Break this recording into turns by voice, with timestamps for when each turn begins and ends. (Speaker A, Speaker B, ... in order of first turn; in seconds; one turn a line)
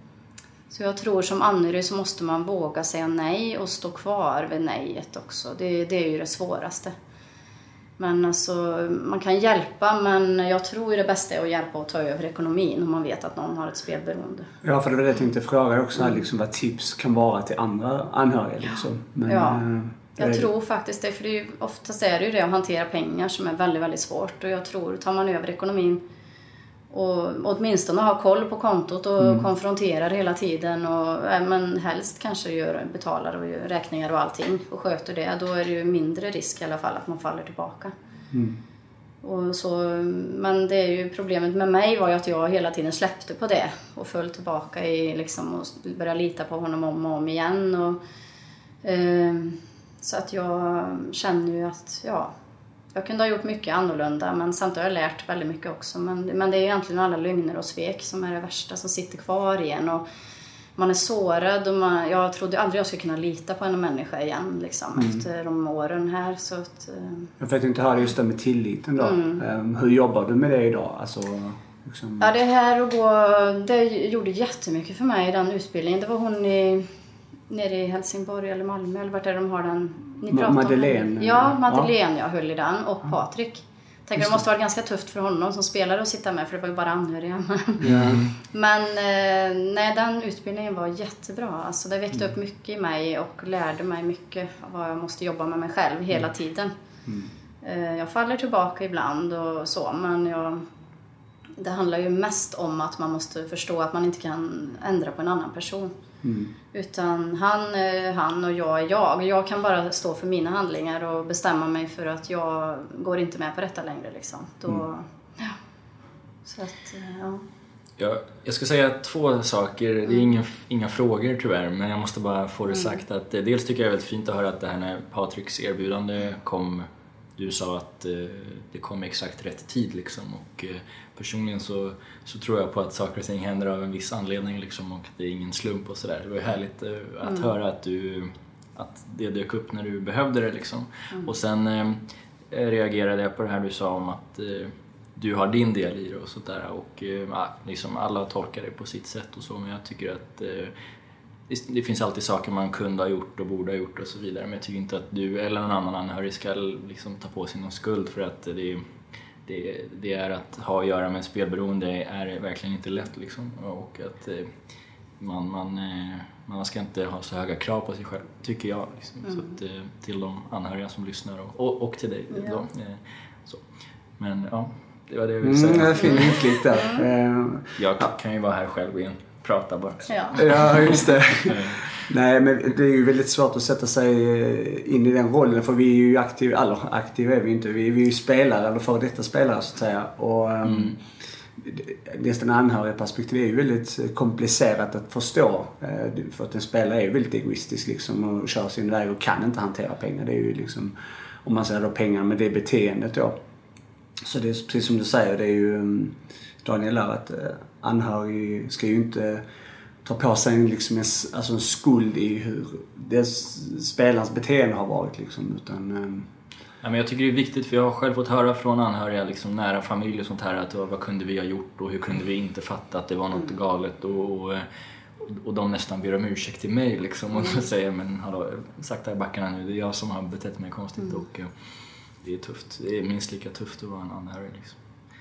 Speaker A: 0.7-6.9
Speaker A: 8.0-14.5
Speaker B: 14.6-20.5
Speaker A: 19.3-19.6
Speaker A: 20.2-26.0
Speaker A: 26.9-37.9
Speaker B: 29.2-29.4
Speaker B: 38.3-38.6
Speaker A: 39.2-48.0
Speaker A: 48.8-52.3
Speaker A: 52.9-60.0
Speaker A: 60.8-67.3
Speaker B: 65.0-65.2
Speaker B: 67.4-72.3
Speaker A: 69.0-69.4
Speaker A: 72.2-76.9
Speaker A: 77.5-87.9
Speaker B: 80.3-81.9
Speaker B: 87.8-88.2
Speaker C: 87.8-88.3
Speaker A: 88.5-96.7
Speaker A: 97.6-100.6
Speaker A: 101.6-105.9
Speaker B: 106.2-106.5
Speaker A: 106.7-115.5
Speaker A: 116.5-117.4
Speaker C: 118.0-150.7
Speaker A: 122.7-123.0
Speaker A: 137.2-137.5
Speaker C: 151.5-158.9
Speaker C: 159.4-164.6
Speaker C: 165.2-173.6
Speaker A: 169.2-169.5
Speaker A: 172.3-172.7
Speaker C: 174.2-176.4
Speaker B: 175.4-178.1
Speaker A: 176.0-177.0
Speaker C: 177.8-182.0
Speaker A: 180.1-180.4
Speaker B: 180.3-191.0
Speaker C: 190.6-190.9
Speaker B: 191.6-200.9
Speaker B: 201.4-203.3
Speaker B: 204.2-209.4
Speaker B: 210.0-216.3
Speaker C: 216.8-224.7
Speaker C: 225.2-231.5
Speaker C: 232.2-234.8